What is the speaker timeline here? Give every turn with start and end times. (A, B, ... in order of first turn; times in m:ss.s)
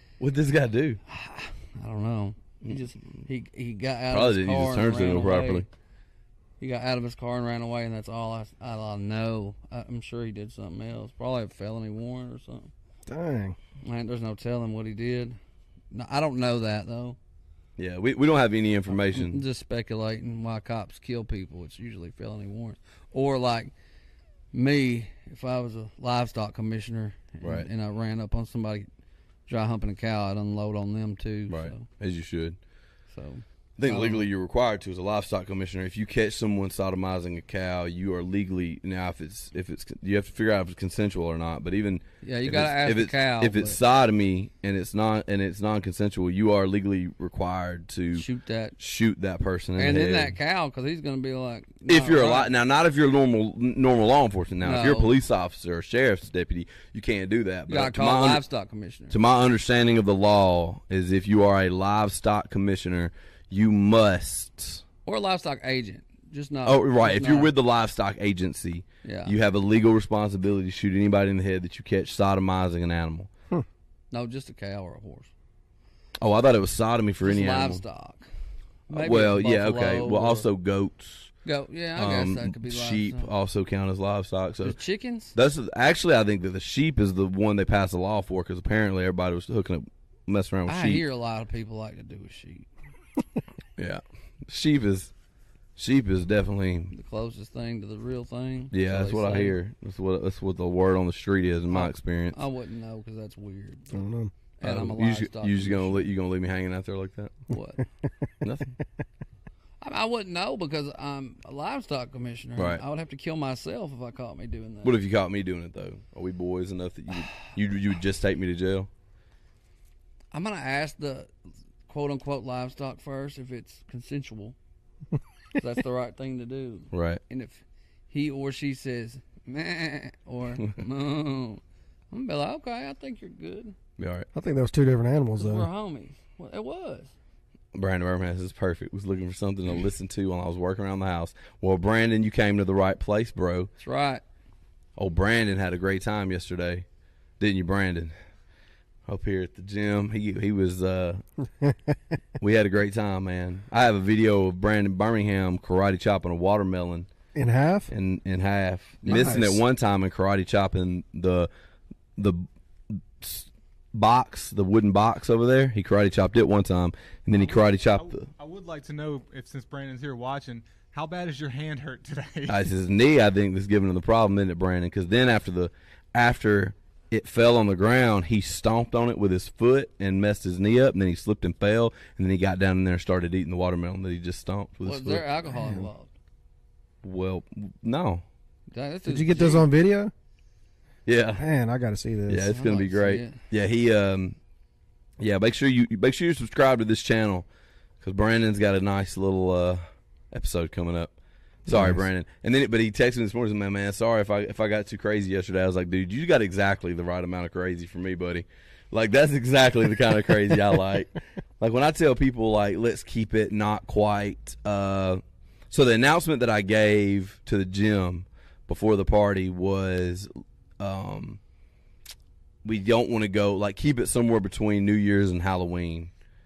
0:00.2-0:01.0 A
0:01.1-0:05.6 B
0:04.1-0:05.6 A
0:06.6-0:12.7 B
0:13.1-0:13.6 C
0:13.8-0:15.4 B
0:15.9-0:17.2 B
0:17.8-0:19.4 A
0:18.9-0:23.7 B
0:24.5-0:28.9 B
0:27.4-0:27.7 A
0:29.5-0:31.8 B
0:31.5-0:32.6 A
0:33.1-0:34.3 B
0:33.8-0:48.2 A
0:42.2-0:43.8 B
0:48.1-0:48.8 B
0:48.8-0:50.3 A
0:49.8-0:52.5 B
0:51.9-0:58.4 A
0:54.6-0:55.1 B
0:57.7-0:59.2 B
0:59.1-1:04.8 A
1:05.0-1:07.5 B
1:06.6-1:13.3 A
1:09.0-1:09.3 B
1:14.1-1:15.3 B
1:16.2-1:17.8 A
1:17.2-1:18.3 B
1:18.9-1:20.5 B
1:18.9-1:21.3 A
1:21.4-1:23.3 B
1:22.0-1:24.8 A
1:24.6-1:25.3 B
1:25.3-1:31.0 A
1:30.7-1:32.7 B
1:33.8-1:35.1 A
1:35.8-1:36.9 A
1:36.9-1:39.6 B
1:38.7-1:42.4 A
1:41.7-1:44.0 B
1:43.9-1:44.3 C
1:44.6-1:46.1 B
1:44.6-1:47.4 A
1:47.5-1:47.8 B
1:48.4-1:48.8 A
1:49.8-1:55.0 B
1:52.6-1:52.8 A
1:54.8-1:58.9 A
2:00.3-2:01.3 B
2:01.9-2:04.6 B
2:05.6-2:13.8 B
2:06.9-2:07.2 A
2:14.0-2:14.3 A
2:14.3-2:15.7 C
2:15.4-2:17.1 B
2:17.7-2:23.7 A
2:23.8-2:24.2 B
2:25.0-2:26.8 A
2:27.4-2:28.1 A
2:29.1-2:31.2 A
2:32.4-2:37.1 A
2:37.3-2:37.9 C
2:37.9-2:41.5 A
2:39.0-2:39.4 B
2:39.0-2:39.6 C
2:42.2-2:48.3 A
2:47.3-2:52.6 D
2:52.5-3:05.3 A
3:04.8-3:06.1 B
3:05.5-3:05.9 C
3:07.0-3:08.2 A
3:08.7-3:09.7 B
3:09.0-3:10.1 C
3:11.0-3:11.4 A
3:11.3-3:12.5 C
3:12.3-3:14.4 A
3:12.5-3:13.4 B
3:15.2-3:17.4 A
3:18.0-3:19.8 A
3:20.3-3:21.1 A
3:21.6-3:22.0 C
3:21.6-3:41.4 A
3:42.6-3:46.1 A